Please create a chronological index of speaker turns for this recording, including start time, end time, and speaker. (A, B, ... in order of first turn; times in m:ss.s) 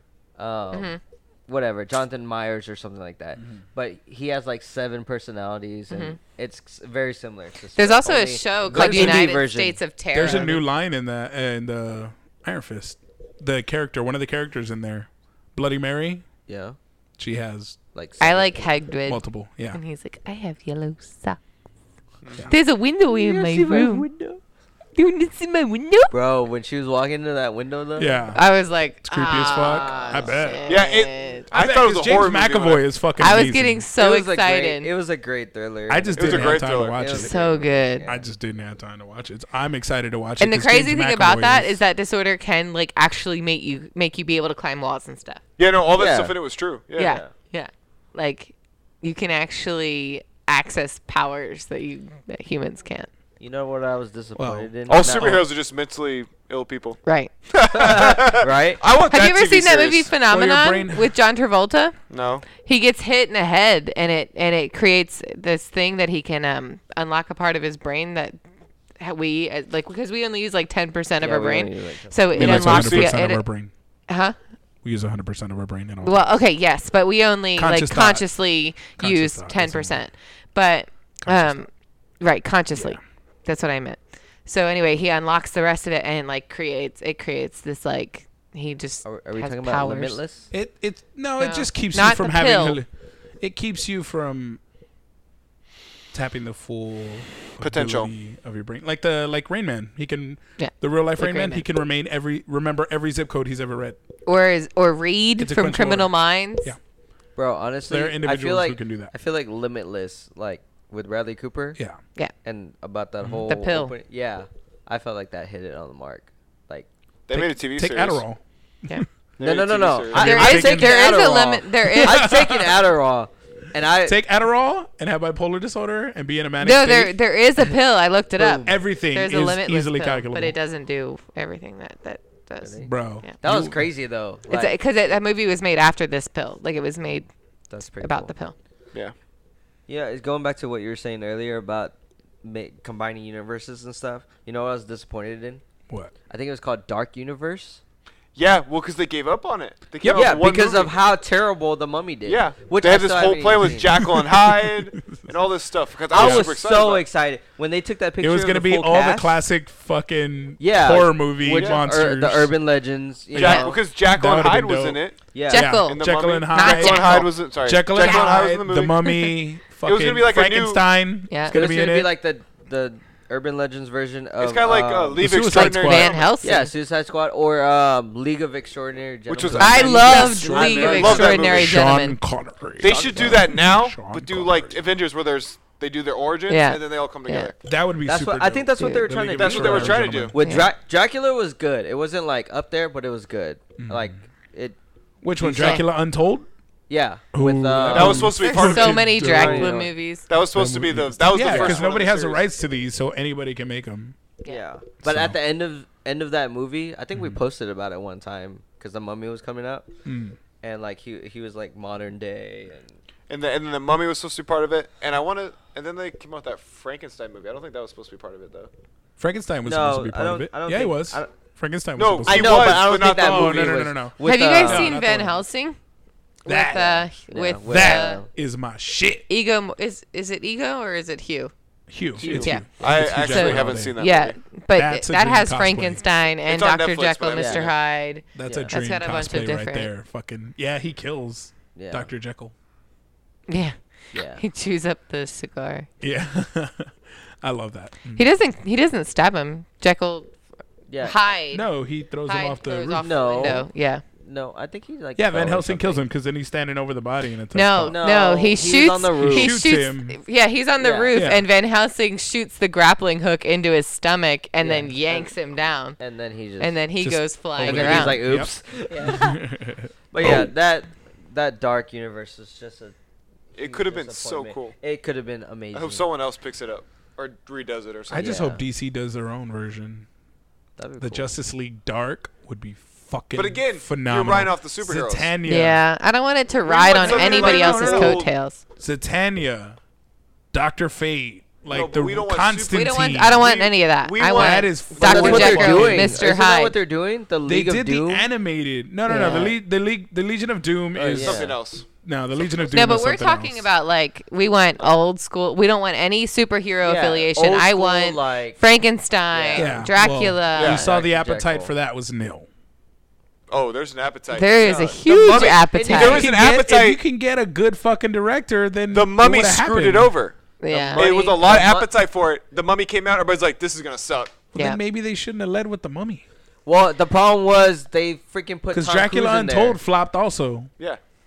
0:00.4-0:01.0 A
0:00.7-0:01.0 B
0:01.5-0:09.8 A
0:05.9-0:06.2 B
0:07.8-0:10.6 B
0:08.6-0:09.2 C
0:10.1-0:16.2 C
0:16.5-0:16.8 A
0:17.2-0:17.8 C
0:17.9-0:18.7 A
0:18.2-0:21.4 B
0:19.1-0:19.8 C
0:22.2-0:22.5 D
0:22.5-0:24.0 B
0:23.1-0:24.4 A
0:24.9-0:26.1 B
0:26.1-0:28.2 A
0:28.0-0:28.4 C
0:28.3-0:31.5 B
0:29.0-0:30.8 C
0:29.6-0:30.6 A
0:30.7-0:32.8 D
0:31.5-0:33.8 C
0:33.2-0:34.9 B
0:34.0-0:38.2 A
0:35.9-0:41.8 C
0:36.2-0:37.0 D
0:37.1-0:38.0 B
0:40.4-0:45.4 B
0:45.6-0:47.2 D
0:46.0-0:46.3 A
0:47.0-0:53.1 B
0:47.0-0:47.3 A
0:53.4-0:55.4 A
0:54.4-0:55.4 C
0:54.9-0:57.0 D
0:57.0-0:57.3 B
0:57.5-1:00.1 D
0:57.7-0:58.8 A
0:59.1-1:02.0 B
1:00.2-1:01.1 C
1:02.1-1:02.4 D
1:02.6-1:08.4 B
1:09.0-1:13.4 B
1:11.2-1:12.5 A
1:12.4-1:13.7 C
1:12.4-1:13.1 D
1:14.1-1:14.4 B
1:14.8-1:16.4 C
1:16.0-1:21.7 B
1:17.6-1:18.2 C
1:19.0-1:20.0 C
1:21.3-1:21.6 C
1:22.2-1:30.2 B
1:29.0-1:30.5 A
1:30.5-1:32.9 C
1:31.4-1:32.8 B
1:33.4-1:34.6 C
1:36.1-1:44.0 C
1:37.6-1:38.1 D
1:40.6-1:41.6 B
1:44.2-1:46.7 B
1:45.4-1:46.8 C
1:47.4-1:51.8 A
1:47.9-1:49.1 C
1:52.4-1:56.9 A
1:53.5-1:53.9 B
1:57.3-1:58.2 D
1:57.3-1:59.0 C
1:59.4-2:00.4 D
1:59.4-2:04.2 A
2:00.1-2:01.2 C
2:00.1-2:02.4 B
2:01.8-2:02.7 C
2:04.0-2:07.1 C
2:06.6-2:13.3 B
2:08.4-2:08.7 A
2:08.5-2:10.5 C
2:12.6-2:14.7 A
2:12.8-2:13.8 C
2:14.5-2:17.3 B
2:17.7-2:18.3 A
2:18.0-2:18.5 B
2:19.9-2:25.6 A
2:26.3-2:27.8 A
2:28.4-2:30.9 D
2:30.0-2:30.8 C
2:30.1-2:34.0 A
2:32.2-2:37.0 D
2:34.0-2:34.3 C
2:36.1-2:39.3 A
2:36.2-2:36.5 C
2:38.2-2:42.5 C
2:40.6-2:43.8 A
2:41.5-2:41.8 D
2:43.3-2:52.1 C
2:43.4-2:45.2 D
2:43.4-2:43.7 B
2:45.3-2:45.7 A
2:45.5-2:47.3 B
2:45.8-2:49.1 D
2:47.9-2:48.4 B
2:49.8-2:50.8 D
2:51.3-2:51.6 B
2:51.5-2:55.3 A
2:54.4-2:56.3 D
2:55.2-2:56.2 C
2:55.5-2:56.7 B
2:56.4-3:01.5 A
2:59.3-3:01.8 D
2:59.4-3:04.8 C
2:59.6-3:02.2 B
3:02.8-3:07.5 D
3:02.8-3:03.4 A
3:06.5-3:07.5 B
3:07.6-3:10.4 C
3:08.0-3:14.8 A
3:08.8-3:09.1 B
3:09.3-3:10.4 D
3:10.4-3:10.7 B
3:13.8-3:14.2 C
3:15.2-3:16.5 C
3:15.4-3:15.8 A
3:15.5-3:15.8 B
3:16.9-3:18.4 A
3:17.3-3:19.8 C
3:17.9-3:19.1 D
3:18.4-3:20.3 B
3:19.0-3:19.9 A
3:20.3-3:22.4 D
3:20.3-3:24.2 C
3:21.4-3:21.8 A
3:24.4-3:29.9 A
3:25.0-3:25.4 C
3:27.1-3:27.4 C
3:30.0-3:30.4 C
3:30.6-3:33.0 A
3:33.3-3:38.7 D
3:39.2-3:45.4 C
3:39.6-3:41.3 A
3:42.0-3:43.8 D
3:42.2-3:45.0 A
3:44.2-3:45.8 B
3:46.4-3:48.2 B
3:46.4-3:46.8 C
3:46.7-3:48.3 A
3:47.7-3:49.2 C
3:49.3-3:51.5 B
3:51.9-3:54.0 C
3:52.2-3:52.6 A
3:52.2-3:54.4 D
3:53.3-3:59.9 B
3:54.7-3:56.0 C
3:56.4-3:57.8 D
3:57.3-3:57.7 A
3:58.3-4:02.5 C
3:58.4-3:58.7 A
4:01.7-4:02.1 A
4:03.5-4:03.8 B
4:04.1-4:04.4 A
4:04.3-4:05.9 B
4:06.0-4:06.9 C
4:07.4-4:08.3 C
4:08.2-4:10.3 B
4:10.9-4:11.2 A
4:11.0-4:11.7 B
4:11.5-4:13.6 C
4:12.3-4:14.0 B
4:13.0-4:13.7 A
4:14.2-4:16.0 A
4:15.2-4:18.0 C
4:17.5-4:26.0 B
4:17.9-4:19.6 A
4:19.2-4:20.2 C
4:20.8-4:21.2 A
4:21.1-4:21.4 C
4:24.6-4:25.3 A
4:26.0-4:26.7 A
4:26.6-4:28.2 B
4:27.0-4:30.5 C
4:27.6-4:29.4 A
4:28.9-4:29.2 B
4:30.1-4:32.9 A
4:33.5-4:34.7 D
4:33.6-4:36.0 A
4:35.7-4:38.4 D
4:38.1-4:40.0 C
4:38.1-4:38.6 A
4:40.8-4:41.3 A
4:41.0-4:45.8 C
4:43.3-4:45.3 D
4:45.5-4:48.6 B
4:46.6-4:48.3 D
4:47.0-4:48.2 C
4:47.9-4:48.1 A
4:48.8-4:49.8 C
4:50.5-4:53.4 C
4:51.6-4:55.6 D
4:52.7-4:56.8 B
4:54.3-4:56.2 C
4:55.0-4:58.2 A
4:57.5-5:01.5 C
4:59.1-4:59.5 A
4:59.1-4:59.5 B
5:00.9-5:01.5 A
5:01.2-5:01.9 D
5:02.0-5:03.6 C
5:02.4-5:02.8 D
5:02.7-5:10.9 B
5:06.8-5:08.6 A
5:09.3-5:09.8 A
5:09.6-5:12.5 C
5:10.5-5:10.8 D
5:10.6-5:11.7 A
5:13.5-5:17.0 D
5:14.3-5:16.3 B
5:14.6-5:16.2 A
5:16.0-5:20.1 C
5:18.9-5:24.4 D
5:20.6-5:21.4 B
5:20.7-5:21.9 A
5:24.5-5:26.2 C
5:26.6-5:29.8 A
5:28.7-5:30.7 C